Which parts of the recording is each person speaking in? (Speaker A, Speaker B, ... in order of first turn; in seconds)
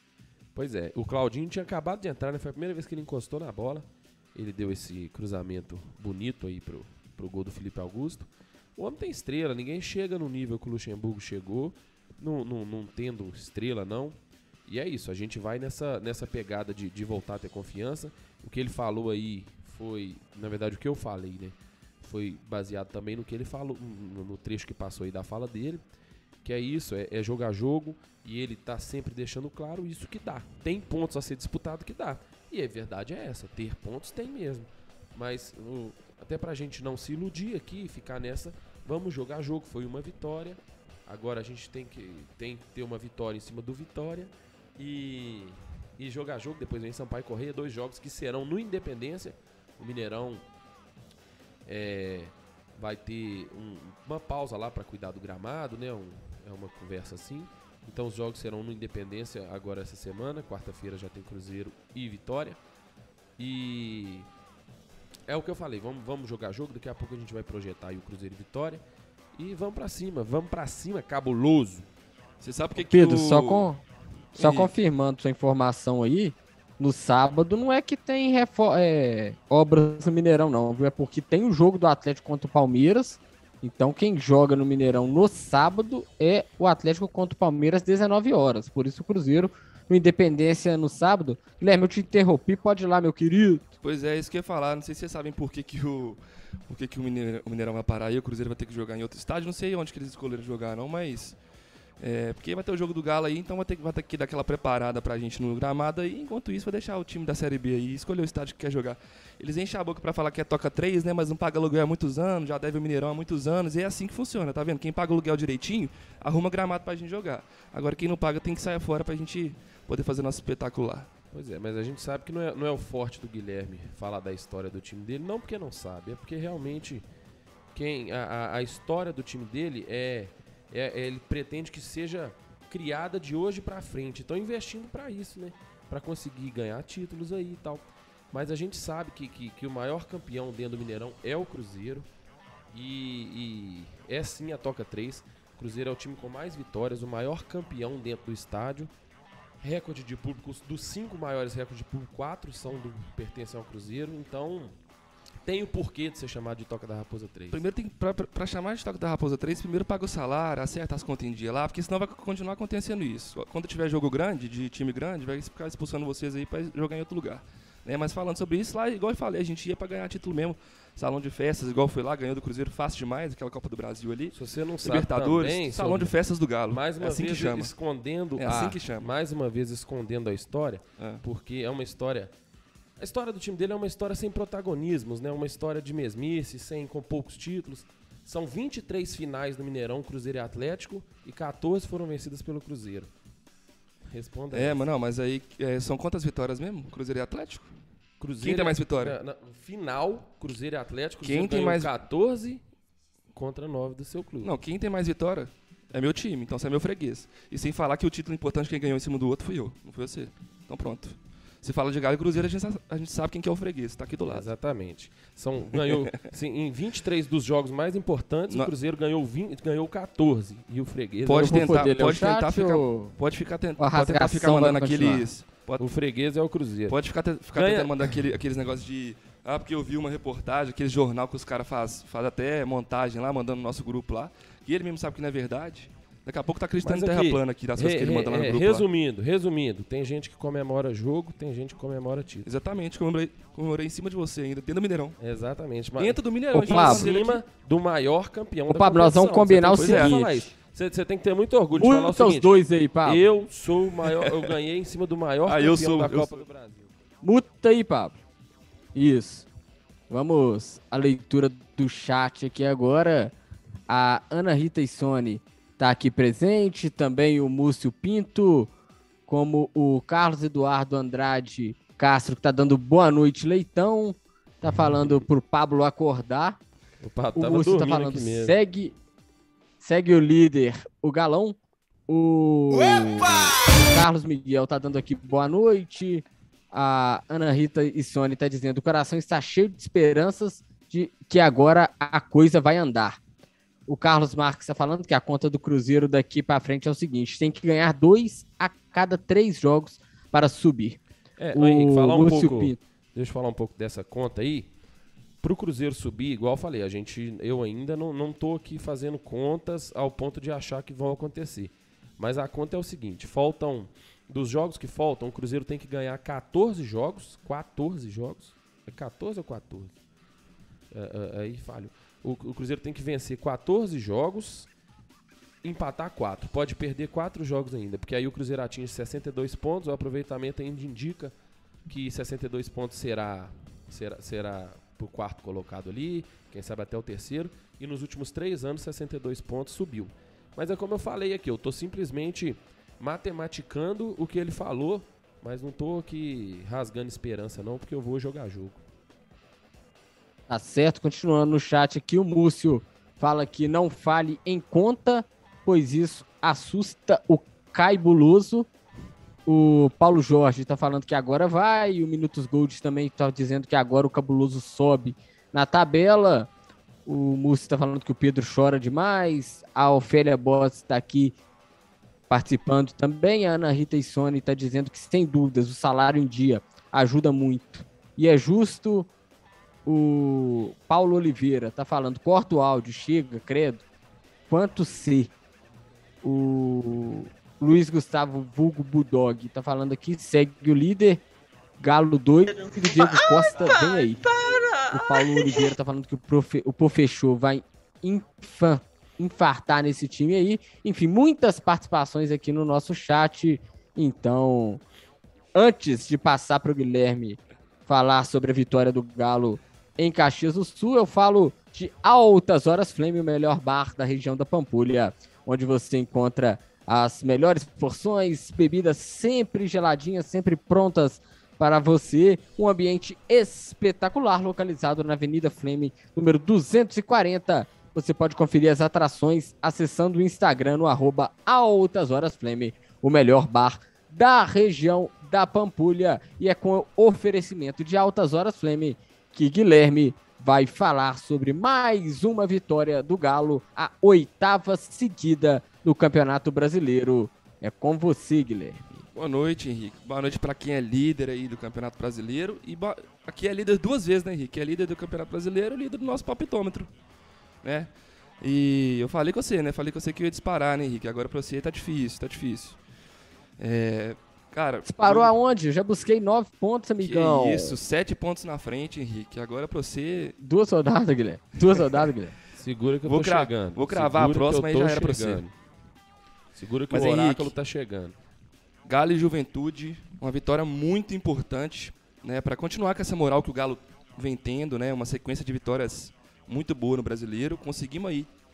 Speaker A: 0.6-25.8, 26.4-50.5, 51.7-62.6, 63.4-64.3, 65.3-68.8, 69.3-71.9, 121.3-127.0, 127.7-142.1, 142.7-148.9, 149.6-154.8, 155.4-157.6, 174.3-176.1, 176.7-182.3, 183.0-193.1, 194.1-194.8, 198.2-202.6, 203.3-204.5, 214.3-221.8, 225.8-227.0, 227.5-228.1, 236.8-242.5, 245.2-256.9, 277.0-278.6, 301.4-304.7, 305.4-319.9, 320.9-324.7, 325.6-331.3, 331.9-348.8, 472.6-475.5, 476.6-478.1
Speaker B: 72.4-73.7, 74.4-74.7, 93.8-101.4, 102.0-121.1, 157.5-177.7, 178.4-179.1, 181.0-181.2, 194.5-197.7, 198.4-199.2, 201.2-201.9, 204.4-214.5, 221.2-225.9, 226.9-238.9, 242.4-245.2, 246.0-247.4, 249.8-250.2, 254.1-254.5, 255.5-256.4, 449.1-456.9, 457.6-457.9, 458.4-462.8, 463.6-465.3, 467.0-470.4, 473.1-475.4, 476.9-477.5, 478.9-488.3
Speaker C: 72.8-73.8, 74.4-93.6, 221.3-223.1, 223.8-225.3, 246.5-247.1, 248.7-250.5, 251.8-253.2, 257.2-258.1, 258.9-259.5, 260.1-263.3, 263.9-268.7, 269.3-276.6, 277.4-278.9, 279.8-281.6, 282.1-293.2, 293.9-301.0, 301.5-302.8, 350.5-358.7, 359.5-366.5, 367.1-371.4, 372.3-379.1, 379.9-383.8, 384.5-385.3, 386.2-391.2, 391.8-394.2, 394.8-404.8, 405.6-448.8, 464.9-467.8, 470.4-472.4